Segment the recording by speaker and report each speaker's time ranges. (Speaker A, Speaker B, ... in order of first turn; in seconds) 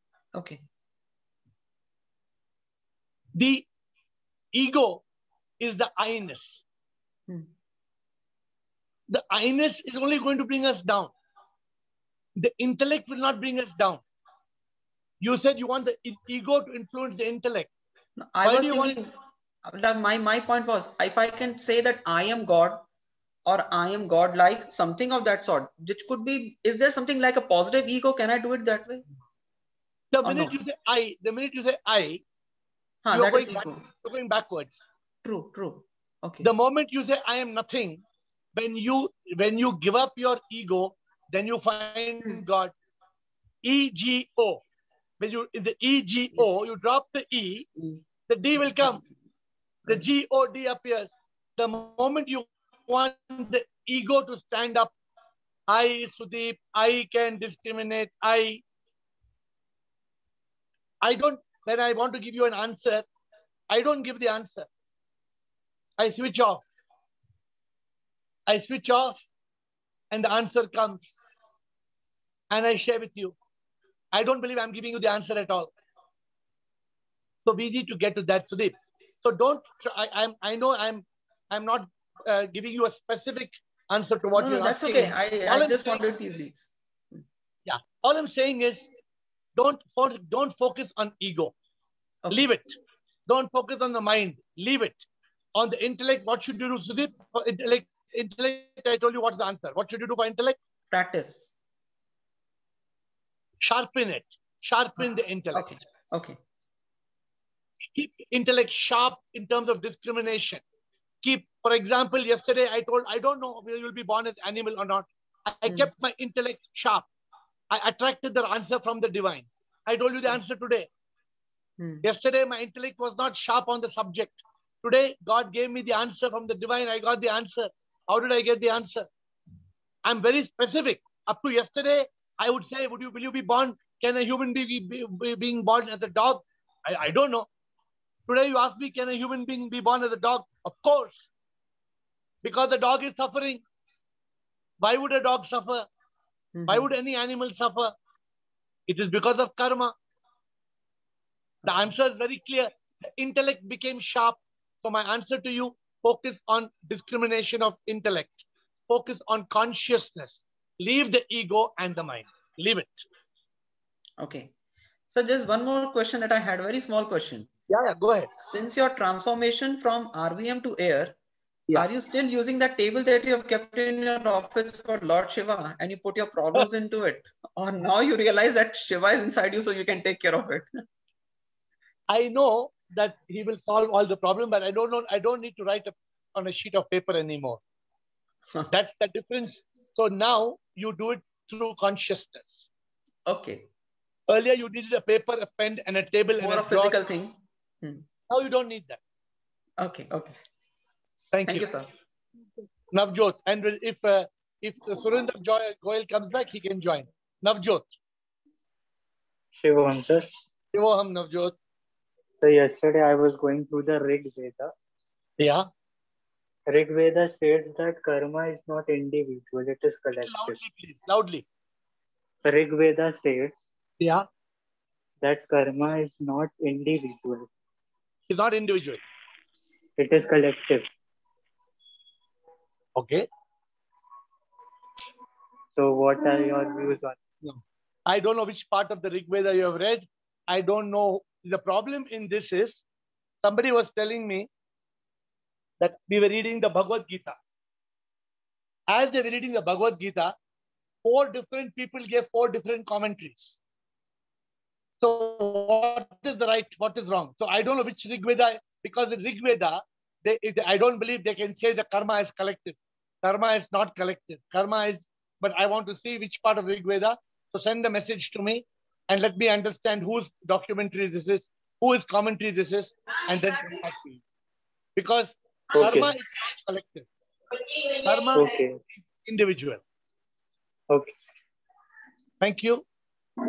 Speaker A: 0.3-0.6, 18.2-22.8, 23.4-29.0, 30.2-30.5, 33.0-33.8, 35.2-36.5, 46.3-46.7, 47.8-48.0, 84.3-87.2, 100.9-101.6, 105.0-106.4, 121.8-122.0, 146.5-146.9, 164.2-164.5, 165.1-167.5, 168.4-171.2, 171.7-180.7, 193.2-193.7, 196.4-198.0, 199.8-200.4, 201.4-201.9
Speaker B: 3.3-3.7, 4.5-5.0, 5.6-6.6, 9.1-11.1, 12.4-14.0, 15.2-17.7, 18.4-18.9, 30.1-32.2, 33.1-34.8, 36.4-38.0, 38.5-42.7, 43.6-44.6, 45.2-47.7, 48.3-49.0, 49.9-54.9, 55.7-58.6, 61.0-63.0, 63.7-64.7, 66.0-66.6, 68.5-69.2, 70.1-71.2, 72.5-73.3, 74.1-75.7, 77.4-86.0, 87.7-88.9, 89.5-91.5, 92.3-92.8, 93.3-100.6, 103.6-105.8, 107.9-110.6, 111.2-117.1, 117.7-120.9, 122.0-129.1, 130.0-137.5, 138.3-141.3, 142.4-143.6, 144.8-145.9, 146.7-147.9, 148.9-149.9, 151.6-163.0, 167.7-168.3, 182.1-187.6, 188.7-192.7, 194.3-197.0, 198.3-199.0, 201.3-201.7, 202.9-208.0, 210.7-211.6, 215.4-215.7, 220.2-221.4, 224.0-224.2, 228.3-229.0, 232.9-233.2, 237.4-242.8, 243.4-244.5, 245.8-247.4, 248.9-250.3, 251.0-253.6, 255.0-274.2, 274.9-277.1, 278.0-278.4, 279.2-279.8, 282.4-282.8
Speaker C: 209.6-210.3, 212.4-214.7, 216.7-220.6, 222.4-223.6, 225.2-227.5, 230.0-230.9, 235.7-237.2, 275.7-276.2, 278.3-278.8, 280.9-281.2